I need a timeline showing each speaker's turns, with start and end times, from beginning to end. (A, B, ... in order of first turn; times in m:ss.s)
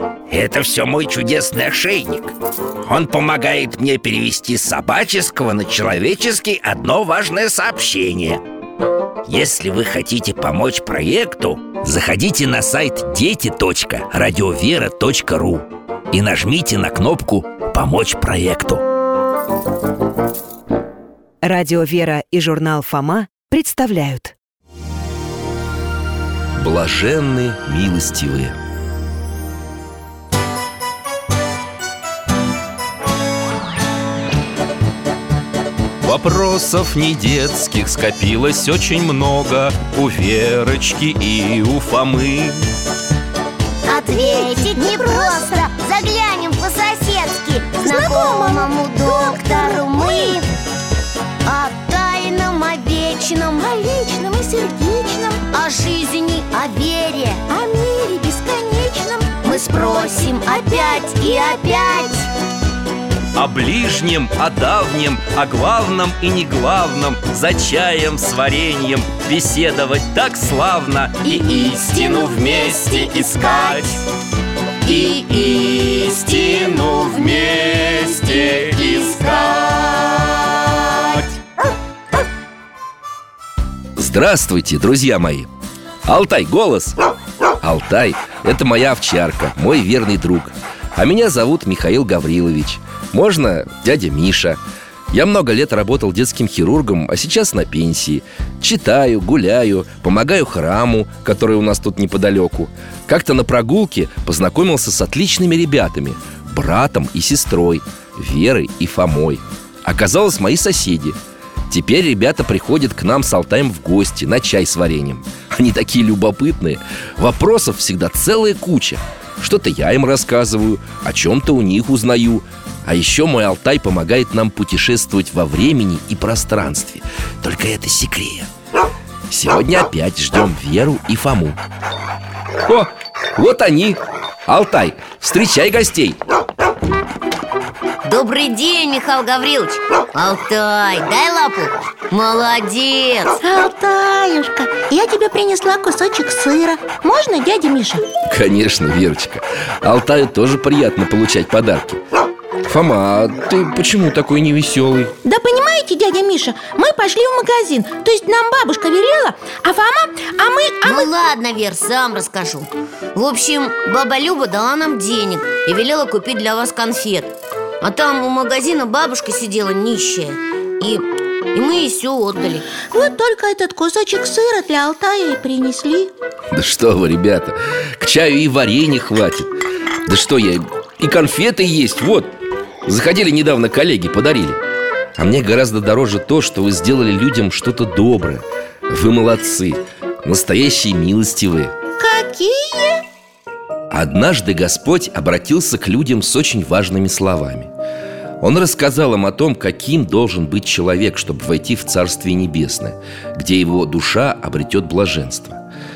0:00.3-0:08.4 A
0:09.3-0:18.8 A
0:21.4-0:24.4 B
0:26.6-0:28.6 C
0:36.0-0:42.6 C
0:43.8-0:45.7 D
0:43.9-0:50.5 E
0:47.8-0:50.4 D
0:51.4-0:53.7 E
0:53.6-0:55.5 D
0:55.5-0:57.4 E
0:57.5-1:02.1 D
0:59.4-1:02.3 E
1:03.4-1:14.0 C
1:14.8-1:20.2 C
1:24.0-1:25.5 C
1:26.1-1:27.0 C
1:27.6-1:34.6 C
1:35.1-1:51.2 C
1:51.7-2:08.5 C
2:09.3-2:11.6 C
2:12.7-2:16.2 C
2:18.0-2:23.4 E
2:23.4-2:28.0 D
2:28.3-2:32.0 C
2:32.6-2:35.1 C
2:35.2-2:41.1 D
2:40.8-2:52.7 E
2:52.9-2:56.1 D
2:56.5-2:59.5 C
3:00.1-3:02.3 C
3:02.9-3:04.6 C
3:05.2-3:11.7 C
3:12.0-3:13.0 D
3:13.9-3:17.7 C
3:18.4-3:25.6 C